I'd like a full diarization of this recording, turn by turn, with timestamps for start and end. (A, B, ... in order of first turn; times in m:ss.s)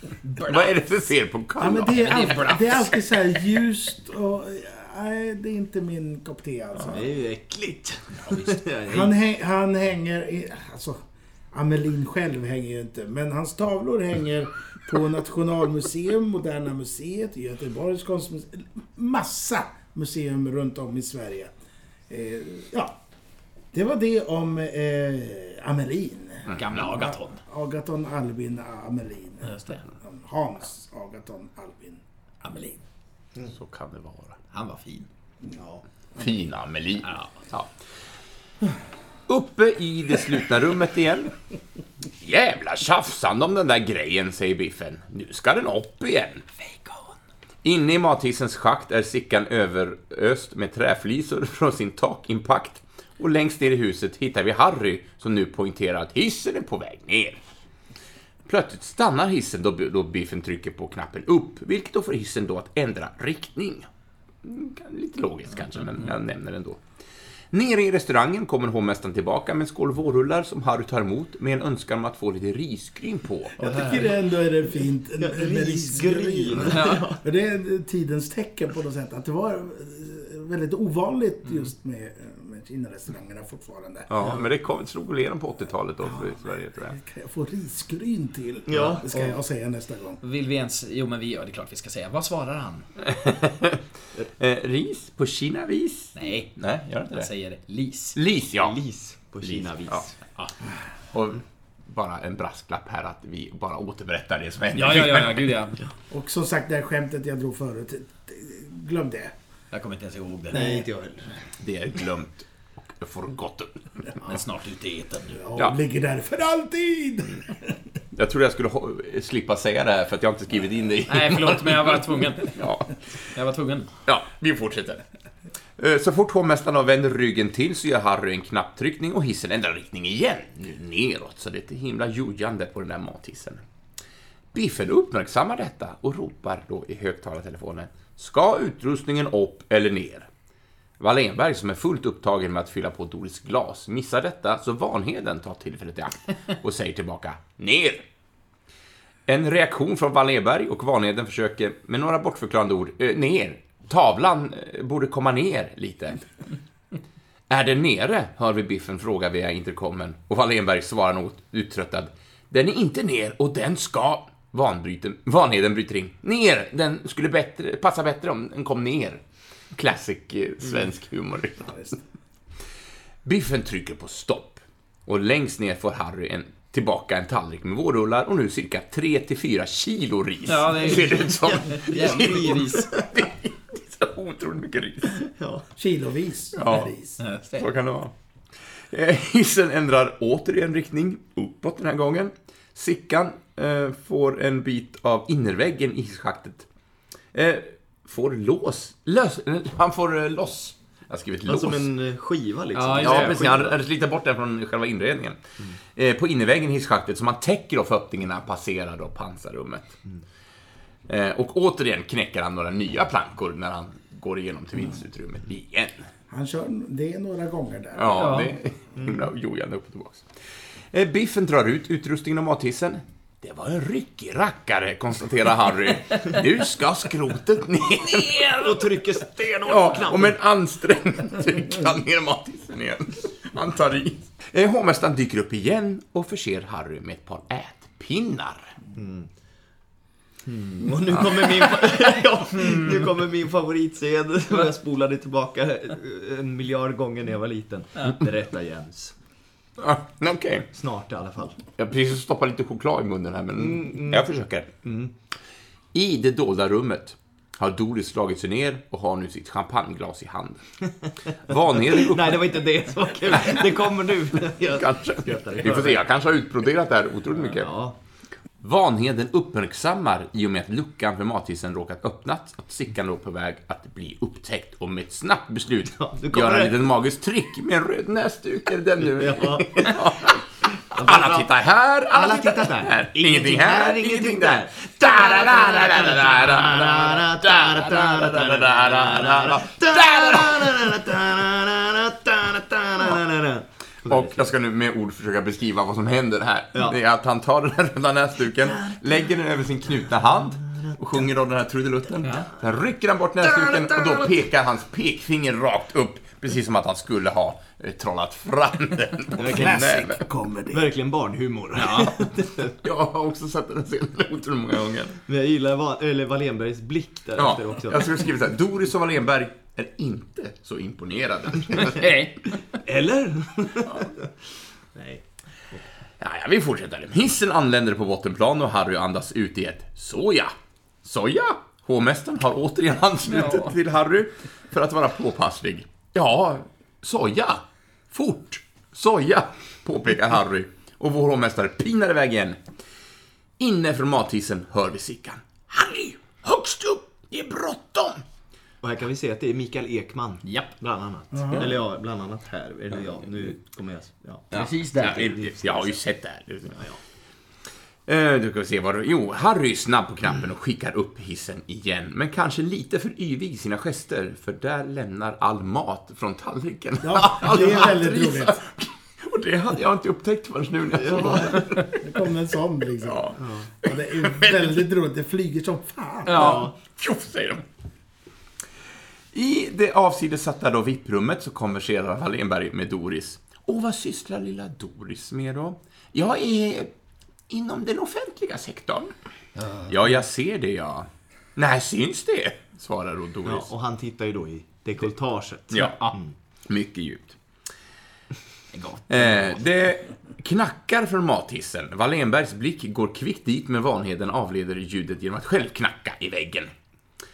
0:00.2-0:00.7 A
0:00.4-0:02.4 B
0:01.6-0:07.1 C
0:01.9-0:03.1 A
0:06.9-0:09.2 D
0:08.2-0:08.6 A
0:08.9-0:11.0 C
0:11.5-0:21.5 C
0:22.1-0:23.0 C
0:23.7-0:32.0 C
0:26.5-0:26.9 B
0:26.5-0:27.4 A
0:29.4-0:29.8 A
0:32.4-0:32.8 A
0:33.4-0:34.4 B
0:34.5-0:35.1 A
0:35.6-0:35.8 D
0:36.2-0:37.8 B
0:37.0-0:37.4 A
0:39.3-0:41.4 B
0:42.2-0:46.4 B
0:46.6-0:47.1 A
0:47.6-0:57.4 B
0:58.5-1:03.9 B
1:04.4-1:06.8 B
1:07.5-1:13.6 B
1:13.6-1:14.1 A
1:13.6-1:24.1 C
1:15.2-1:17.2 D
1:16.7-1:17.0 A
1:21.5-1:21.7 A
1:24.1-1:27.0 B
1:24.2-1:24.5 D
1:26.0-1:30.2 C
1:28.7-1:29.4 D
1:30.2-1:32.9 A
1:33.0-1:37.3 B
1:36.2-1:36.5 A
1:37.1-1:38.2 A
1:38.2-1:38.8 B
1:38.6-1:40.1 D
1:39.4-1:40.0 B
1:41.1-1:45.5 B
1:44.8-1:45.8 A
1:46.1-1:49.3 C
1:49.7-1:50.6 A
1:50.5-1:50.9 C
1:50.5-1:51.3 D
1:51.6-1:54.1 B
1:54.2-1:55.4 A
1:55.4-1:57.8 C
1:58.2-2:03.0 B
2:01.1-2:02.6 A
2:03.3-2:03.9 A
2:04.1-2:05.0 B
2:05.8-2:13.6 B
2:14.5-2:20.3 B
2:21.0-2:28.1 B
2:29.3-2:36.3 B
2:37.5-2:51.9 B
2:53.2-3:05.3 B
3:00.5-3:02.9 A
3:01.3-3:03.1 D
3:05.4-3:05.6 D
3:05.8-3:07.2 C
3:06.5-3:06.9 B
3:07.2-3:07.7 A
3:07.5-3:08.1 B
3:08.8-3:16.7 B
3:17.3-3:21.9 B
3:21.5-3:23.8 D
3:22.7-3:23.4 A
3:23.0-3:25.4 B
3:25.9-3:30.0 B
3:31.1-3:36.1 B
3:36.3-3:38.5 C
3:38.0-3:40.3 B
3:38.1-3:38.6 A
3:40.9-3:48.9 B
3:48.2-3:50.4 D
3:49.6-3:58.8 B
3:59.0-3:59.3 D
4:00.5-4:09.2 D
4:09.8-4:10.7 B
4:10.7-4:11.6 D
4:11.8-4:14.7 B
4:13.6-4:15.1 D
4:15.9-4:20.6 B
4:21.5-4:22.5 B
4:21.9-4:26.0 D
4:23.3-4:23.7 B
4:24.5-4:27.7 B
4:27.4-4:28.0 D
4:28.6-4:51.1 B
4:36.0-4:36.9 D
4:39.1-4:41.5 D
4:42.1-4:54.5 D
4:54.1-5:10.2 B
4:58.7-4:59.0 D
5:00.4-5:01.0 D
5:02.2-5:02.5 A
5:03.6-5:04.1 D
5:09.4-5:10.0 D
5:09.4-5:10.9 C
5:10.7-5:12.8 D
5:11.8-5:12.2 A
5:12.8-5:15.2 B
5:15.3-5:18.2 D
5:17.4-5:22.3 B
5:21.8-5:22.6 A
5:22.7-5:24.3 D
5:25.0-5:25.2 D
5:26.2-5:42.6 B
5:33.3-5:33.7 A
5:43.6-5:48.2 B
5:48.8-5:56.0 D
5:50.4-5:50.7 A
5:51.3-5:51.7 C
5:54.5-5:55.3 A
5:54.6-5:56.9 B
5:58.1-6:12.0 B
6:07.0-6:08.6 C
6:11.0-6:11.6 D
6:11.2-6:16.7 C
6:13.0-6:14.8 B
6:13.4-6:13.7 D
6:16.3-6:16.6 A
6:16.3-6:16.7 D
6:16.4-6:17.7 B
6:19.3-6:26.9 B
6:27.5-6:29.1 B
6:29.6-6:29.9 A
6:29.8-6:33.7 B
6:33.4-6:36.3 D
6:35.8-6:36.2 A
6:36.6-6:37.4 B
6:38.7-6:39.6 A
6:39.1-6:46.7 B